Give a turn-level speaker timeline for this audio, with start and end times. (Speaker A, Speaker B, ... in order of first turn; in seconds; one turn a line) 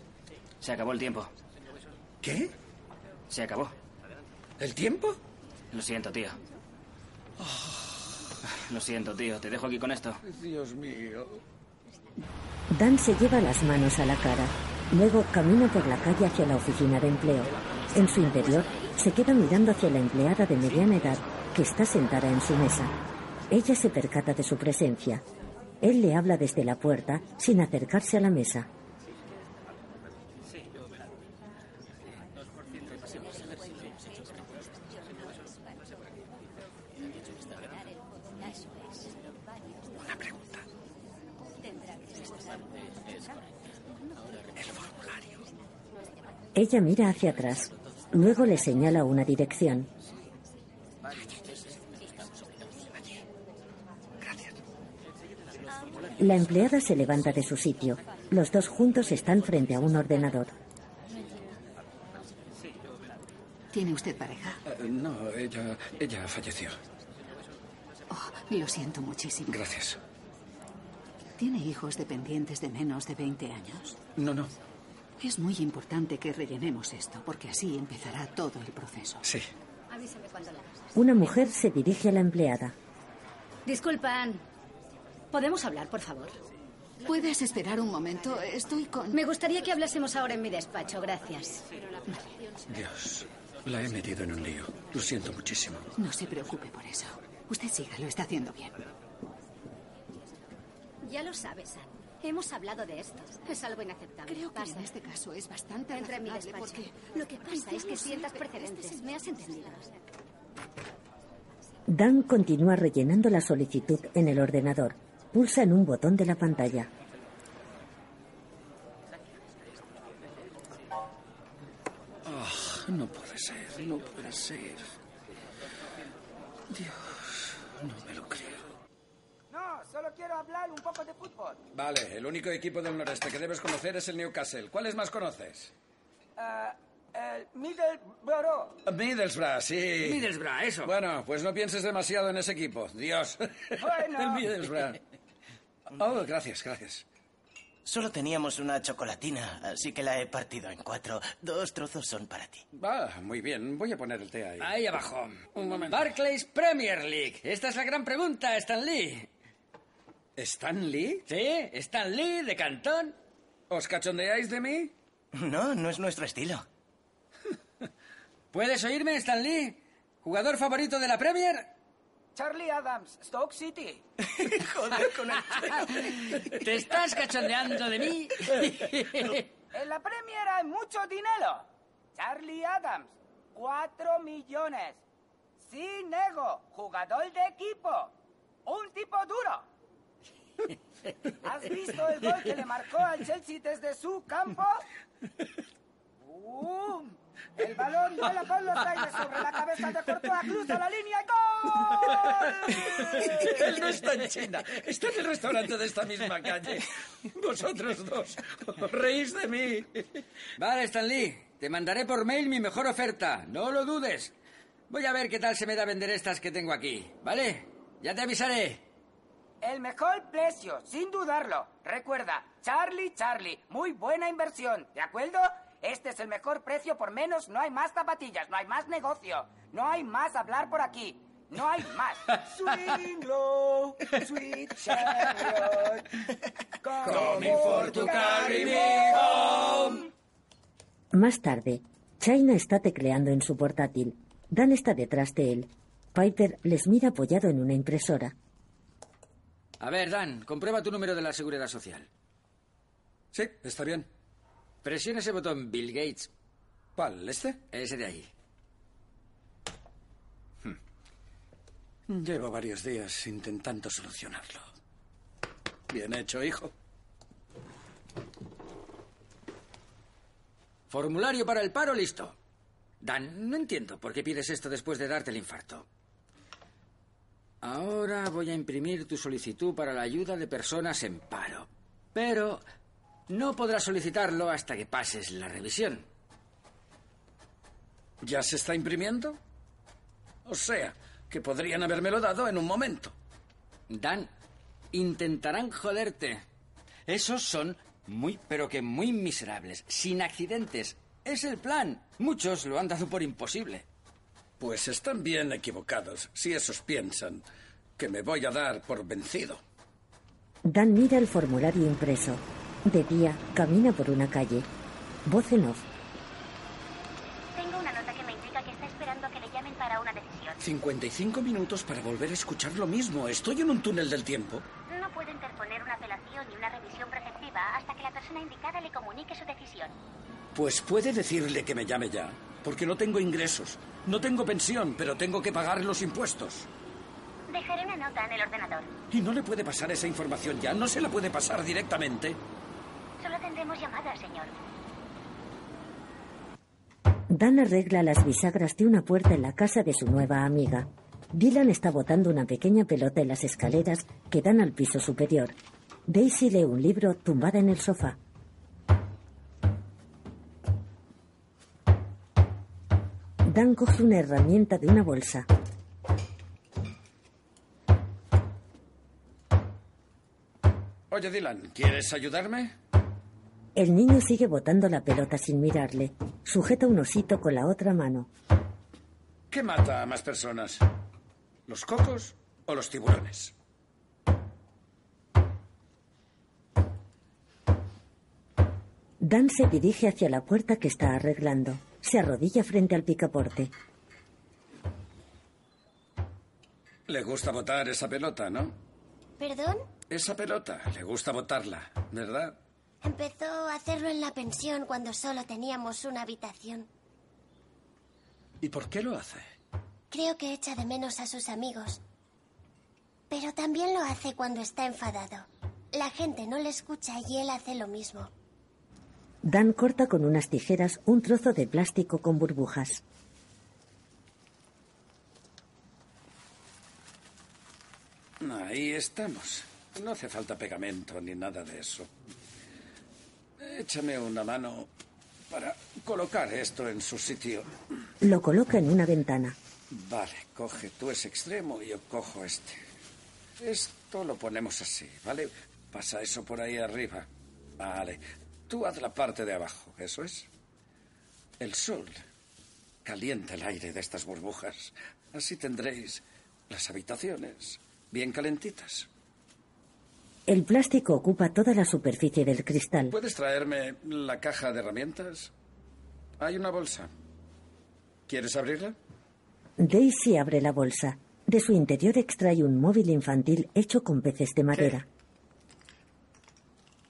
Speaker A: 0.6-1.3
Speaker B: 2.2-2.5
Speaker A: 3.3-3.7
Speaker B: 4.6-5.2
Speaker A: 5.7-6.4
Speaker B: 7.4-8.0
Speaker A: 8.5-10.2
Speaker B: 10.2-11.4
Speaker C: 12.7-22.9
Speaker C: 23.5-25.2
Speaker C: 25.8-28.7
Speaker B: 40.0-40.6
Speaker B: 44.6-45.4
Speaker C: 46.5-49.9
Speaker B: 54.2-54.5
Speaker C: 56.2-60.5
Speaker D: 63.7-64.6
Speaker B: 64.7-66.8
Speaker D: 68.1-69.6
Speaker B: 69.5-70.0
Speaker D: 71.4-74.0
Speaker B: 74.2-74.5
Speaker D: 75.2-79.2
Speaker E: 79.9-80.8
Speaker C: 80.9-82.7
Speaker E: 83.7-84.4
Speaker E: 85.3-86.4
Speaker D: 87.0-89.2
Speaker E: 89.1-91.6
Speaker D: 92.1-92.3
Speaker B: 92.7-95.9
Speaker D: 96.0-98.8
Speaker E: 101.0-104.9
Speaker D: 104.2-109.4
Speaker E: 105.9-109.9
Speaker C: 111.9-116.9
Speaker B: 122.2-124.9
Speaker B: 126.7-128.6
Speaker F: 129.5-131.6
Speaker B: 131.7-135.7
Speaker F: 136.4-138.8
Speaker B: 138.8-140.2
Speaker G: 140.0-140.9
Speaker B: 140.8-145.0
Speaker F: 143.8-144.5
Speaker B: 145.9-147.0
Speaker H: 147.8-152.6
Speaker B: 152.7-154.7
Speaker G: 154.6-159.3
Speaker B: 155.5-156.1
Speaker B: 160.4-161.2
Speaker G: 161.3-163.1
Speaker B: 163.7-164.9
Speaker H: 165.3-166.6
Speaker G: 168.5-171.7
Speaker F: 172.3-174.0
Speaker H: 174.4-175.8
Speaker G: 175.5-179.4
Speaker F: 179.7-185.0
Speaker F: 185.6-188.1
Speaker F: 188.7-189.7
Speaker F: 191.4-194.8
Speaker F: 196.2-203.8
Speaker B: 202.7-209.9
Speaker G: 210.6-214.3
Speaker G: 214.9-218.8
Speaker F: 219.6-236.0
Speaker F: 236.8-239.5
Speaker B: 237.1-239.2
Speaker C: 241.1-248.3
Speaker G: 249.8-252.1
Speaker B: 253.3-254.1
Speaker G: 254.8-256.3
Speaker B: 256.9-257.6
Speaker G: 257.7-258.3
Speaker B: 262.1-264.6
Speaker B: 265.9-266.7
Speaker G: 270.9-272.4
Speaker G: 273.0-275.9
Speaker G: 277.6-282.6
Speaker G: 283.3-286.1
Speaker B: 288.2-289.4
Speaker B: 290.4-293.1
Speaker G: 293.9-294.3
Speaker G: 294.9-296.4
Speaker G: 297.1-303.8
Speaker B: 304.6-307.4
Speaker B: 308.0-309.6
Speaker C: 310.6-314.7
Speaker C: 315.2-315.8
Speaker I: 317.6-320.6
Speaker B: 320.6-324.6
Speaker I: 324.9-329.9
Speaker B: 330.5-336.7
Speaker I: 337.5-338.9
Speaker B: 339.1-342.4
Speaker I: 343.2-344.5
Speaker C: 347.3-355.5
Speaker C: 356.1-358.2
Speaker C: 363.4-365.5
Speaker B: 371.1-372.7
Speaker C: 373.7-378.3
Speaker B: 379.5-380.8
Speaker B: 381.7-383.5
Speaker C: 389.2-393.7
Speaker B: 397.1-398.8
Speaker I: 399.4-399.9
Speaker B: 400.1-402.6
Speaker I: 403.0-406.9
Speaker B: 408.6-409.5
Speaker I: 410.1-412.0
Speaker I: 413.3-418.3
Speaker C: 419.4-423.0
Speaker B: 428.4-432.1
Speaker B: 433.6-434.9
Speaker B: 435.5-437.7
Speaker C: 438.2-439.6
Speaker B: 439.9-442.8
Speaker B: 443.6-447.3
Speaker B: 447.8-450.5
Speaker B: 451.6-452.2
Speaker B: 453.0-459.1
Speaker C: 460.5-463.1
Speaker B: 463.1-465.5
Speaker B: 466.4-467.1
Speaker B: 468.3-468.9
Speaker C: 469.8-475.0